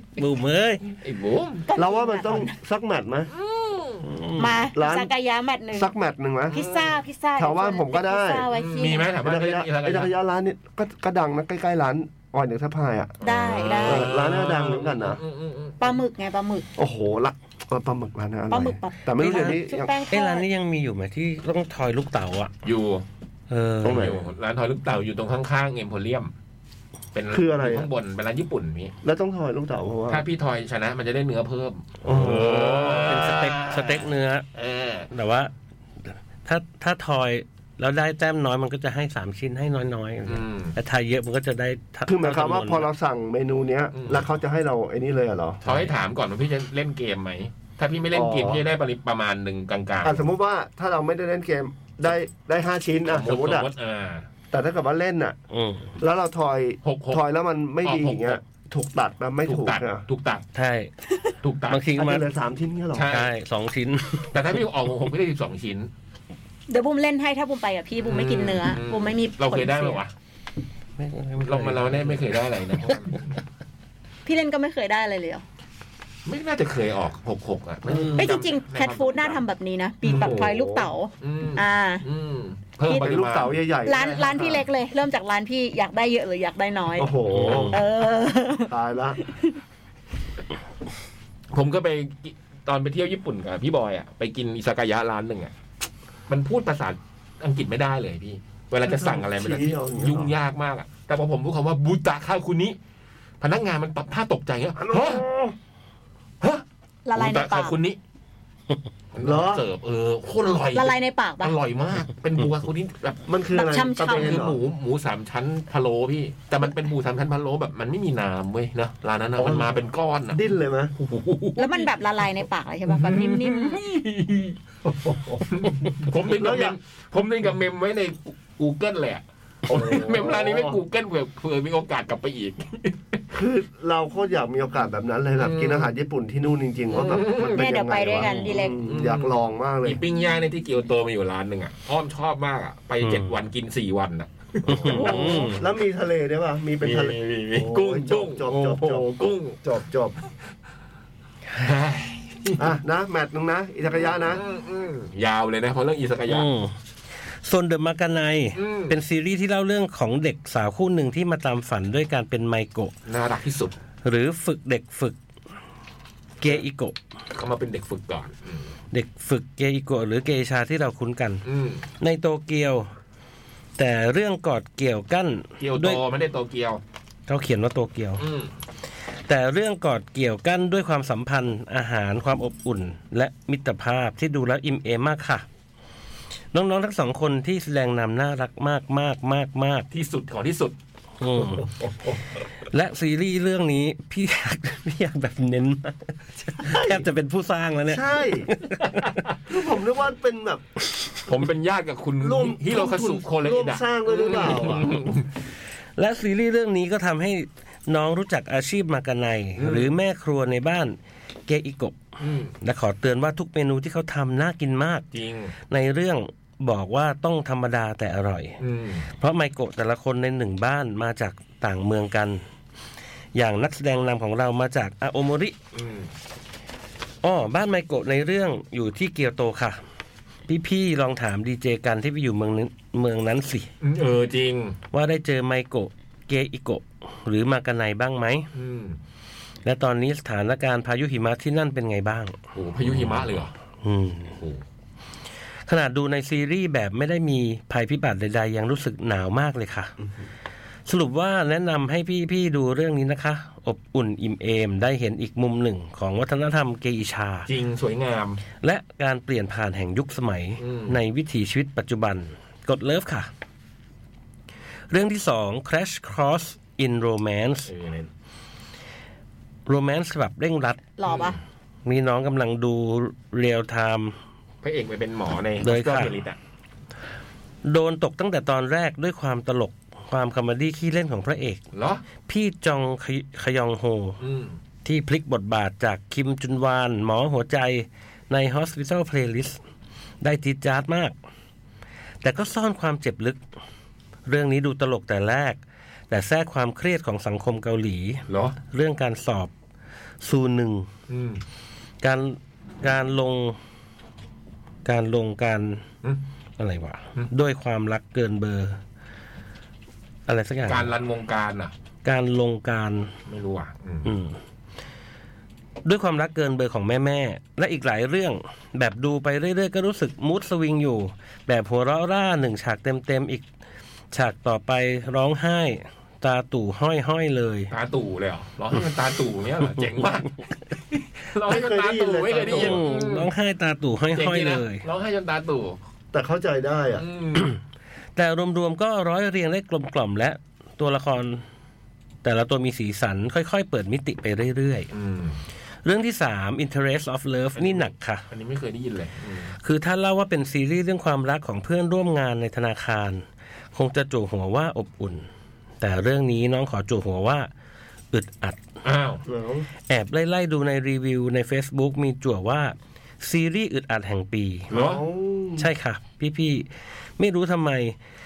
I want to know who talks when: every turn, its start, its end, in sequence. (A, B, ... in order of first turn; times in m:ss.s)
0:00.2-0:00.8 A
0:01.0-0:01.6 B
0:01.7-0:02.6 C
0:01.8-0:03.3 D
0:03.3-0:04.1 B
0:04.0-0:04.7 A
0:04.4-0:05.9 C
0:04.8-0:05.1 D
0:05.8-0:06.6 D
0:06.5-0:09.1 C
0:06.5-0:07.0 B
0:07.4-0:08.5 D
0:08.5-0:10.1 B
0:09.2-0:13.2 D
0:13.2-0:16.0 B
0:13.2-0:14.1 C
0:13.8-0:15.2 D
0:15.8-0:16.7 C
0:16.8-0:19.9 D
0:18.5-0:20.5 C
0:19.2-0:22.5 A
0:22.6-0:23.0 B
0:23.5-0:24.1 A
0:23.8-0:24.2 D
0:23.8-0:26.3 B
0:27.1-0:28.9 B
0:27.3-0:27.9 D
0:29.0-0:30.2 D
0:30.1-0:35.1 B
0:32.0-0:33.3 D
0:32.1-0:34.5 A
0:35.1-0:35.5 A
0:36.1-0:42.9 A
0:40.3-0:40.8 B
0:42.1-0:45.6 D
0:43.9-0:44.3 B
0:45.6-0:50.3 B
0:48.1-0:48.6 D
0:50.0-0:53.7 D
0:53.1-0:54.3 B
0:54.5-0:55.4 D
0:55.5-0:55.9 A
0:56.0-1:00.0 D
0:56.8-0:57.2 B
0:57.8-0:58.4 B
0:59.4-1:00.4 B
1:00.6-1:00.9 A
1:01.4-1:01.8 B
1:01.7-1:02.2 A
1:02.0-1:03.2 D
1:03.0-1:03.3 B
1:03.1-1:04.4 A
1:04.3-1:05.9 B
1:06.7-1:10.0 C
1:08.0-1:10.1 B
1:11.0-1:12.3 A
1:11.4-1:13.3 B
1:12.8-1:13.1 A
1:14.2-1:15.4 C
1:16.3-1:19.4 B
1:18.2-1:22.1 C
1:20.0-1:20.5 B
1:20.1-1:20.9 D
1:21.2-1:24.1 B
1:22.9-1:23.2 C
1:22.9-1:24.6 D
1:23.8-1:27.1 C
1:27.0-1:27.8 D
1:27.3-1:27.8 A
1:27.7-1:29.6 C
1:28.7-1:29.2 D
1:31.5-1:35.5 B
1:36.3-1:42.8 B
1:38.9-1:40.3 D
1:43.4-1:45.2 B
1:44.8-1:45.6 D
1:47.1-1:47.8 C
1:47.2-1:48.0 B
1:49.1-1:53.2 B
1:49.2-1:49.7 D
1:50.7-1:51.6 C
1:53.3-1:54.6 D
1:53.5-1:54.4 C
1:54.0-2:00.4 B
1:59.4-2:00.9 D
2:01.0-2:02.0 B
2:01.6-2:03.8 C
2:02.9-2:04.6 B
2:04.8-2:05.6 D
2:05.5-2:13.2 B
2:06.2-2:06.8 D
2:09.7-2:10.8 D
2:13.3-2:20.0 D
2:15.4-2:15.9 B
2:16.9-2:17.7 B
2:17.3-2:18.8 C
2:18.8-2:25.4 B
2:23.0-2:23.3 A
2:24.7-2:25.6 A
2:24.7-2:30.2 D
2:24.9-2:25.5 C
2:26.8-2:29.6 B
2:31.6-2:32.7 B
2:32.6-2:34.4 D
2:34.0-2:36.5 B
2:36.3-2:36.8 A
2:37.4-2:42.9 A
2:38.6-2:39.0 B
2:43.1-2:43.8 B
2:44.0-2:45.2 A
2:46.4-2:47.0 A
2:47.3-2:48.7 B
2:48.9-2:51.4 A
2:51.4-2:51.9 B
2:52.0-2:52.9 A
2:53.8-2:56.0 A
2:55.6-2:56.8 B
2:57.3-2:58.3 A
2:58.2-2:58.5 B
2:59.3-3:05.5 A
3:06.5-3:09.9 A
3:09.9-3:10.8 B
3:11.2-3:11.7 A
3:11.4-3:12.2 D
3:12.7-3:19.2 A
3:16.6-3:17.0 D
3:17.9-3:18.5 D
3:19.5-3:20.6 D
3:21.3-3:25.3 B
3:22.2-3:25.1 D
3:26.0-3:32.0 A
3:29.6-3:29.9 B
3:32.2-3:32.6 B
3:32.6-3:35.0 A
3:35.1-3:35.5 B
3:35.7-3:38.6 A
3:38.6-3:39.1 B
3:39.1-3:42.4 A
3:43.3-3:45.6 A
3:45.7-3:46.1 B
3:47.2-3:49.8 A
3:50.5-3:53.7 A
3:53.8-3:54.8 B
3:54.9-3:58.5 A
3:58.5-3:59.0 B
3:59.6-4:03.2 A
4:02.5-4:03.5 B
4:03.8-4:04.4 A
4:05.7-4:09.9 A
4:10.9-4:17.5 A
4:17.5-4:18.4 B
4:18.5-4:23.3 A
4:20.6-4:21.0 B
4:24.9-4:27.7 A
4:27.7-4:28.1 B
4:29.7-4:30.8 A
4:31.0-4:31.4 C
4:31.1-4:31.4 B
4:31.8-4:34.2 A
4:34.6-4:36.4 B
4:35.6-4:36.1 A
4:37.6-4:41.6 A
4:41.7-4:42.0 B
4:42.2-4:44.2 A
4:44.2-4:44.6 B
4:44.8-4:49.6 A
4:50.2-4:51.2 A
4:52.2-4:53.4 A
4:54.3-4:59.5 A
4:58.3-4:58.6 B
5:00.2-5:00.9 A
5:01.1-5:01.4 B
5:02.0-5:03.6 A
5:04.8-5:05.8 A
5:06.6-5:08.8 A
5:10.3-5:10.9 A
5:10.7-5:11.7 B
5:12.0-5:13.1 A
5:13.3-5:14.1 B
5:14.0-5:14.4 A
5:15.8-5:23.5 A
5:24.1-5:27.7 A
5:27.7-5:33.3 B
5:31.5-5:32.8 D
5:32.4-5:34.8 A
5:34.1-5:35.8 B
5:36.1-5:37.0 D
5:37.0-5:37.5 B
5:38.2-5:41.4 A
5:42.2-5:44.9 A
5:44.9-5:45.4 B
5:45.8-5:48.2 A
5:47.6-5:49.6 B
5:49.6-5:55.3 A
5:55.8-5:57.5 A
5:58.1-5:58.6 A
5:58.8-5:59.2 B
5:59.3-5:59.7 D
5:59.9-6:04.8 A
6:04.7-6:05.0 B
6:04.7-6:05.7 D
6:05.6-6:08.0 A